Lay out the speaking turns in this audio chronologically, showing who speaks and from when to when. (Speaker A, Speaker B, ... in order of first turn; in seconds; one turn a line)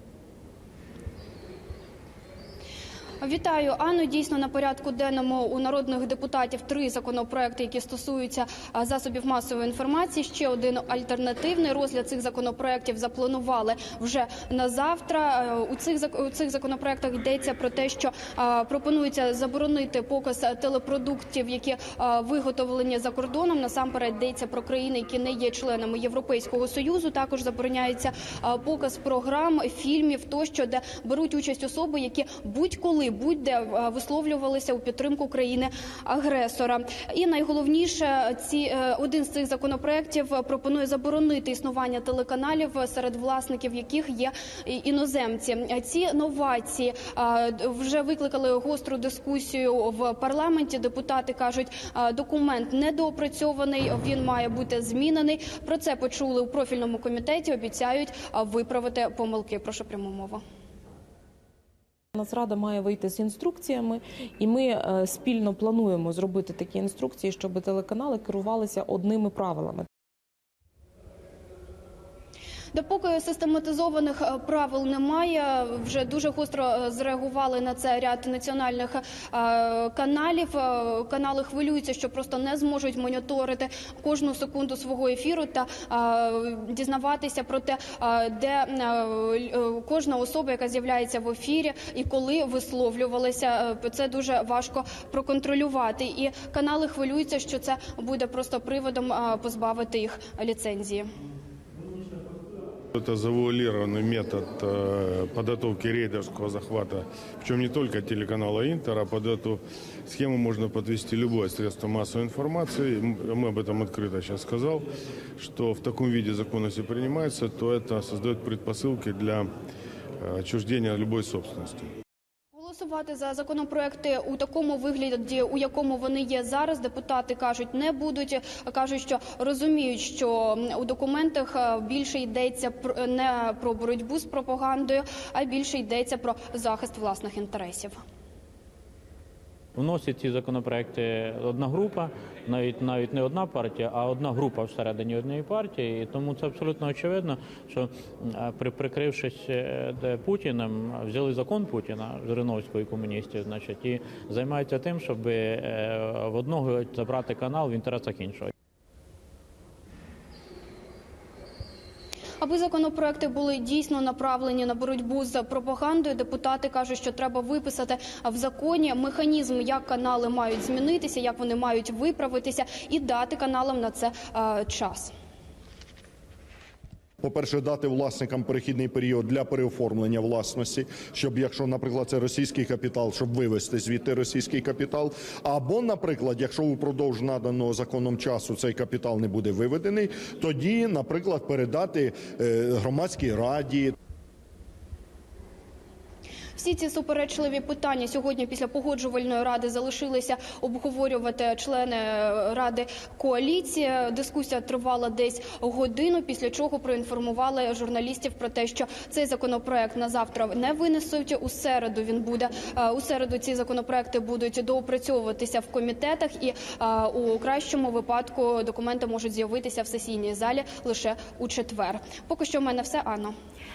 Speaker A: 3.2-60.4
Speaker B: 62.1-69.8
Speaker A: 72.7-101.1
Speaker C: 102.9-114.8
Speaker C: 115.4-119.5
Speaker C: 120.2-121.9
Speaker A: 122.5-138.0
Speaker D: 139.7-158.5
Speaker A: 162.4-175.1
Speaker E: 177.2-193.9
Speaker A: 196.6-223.3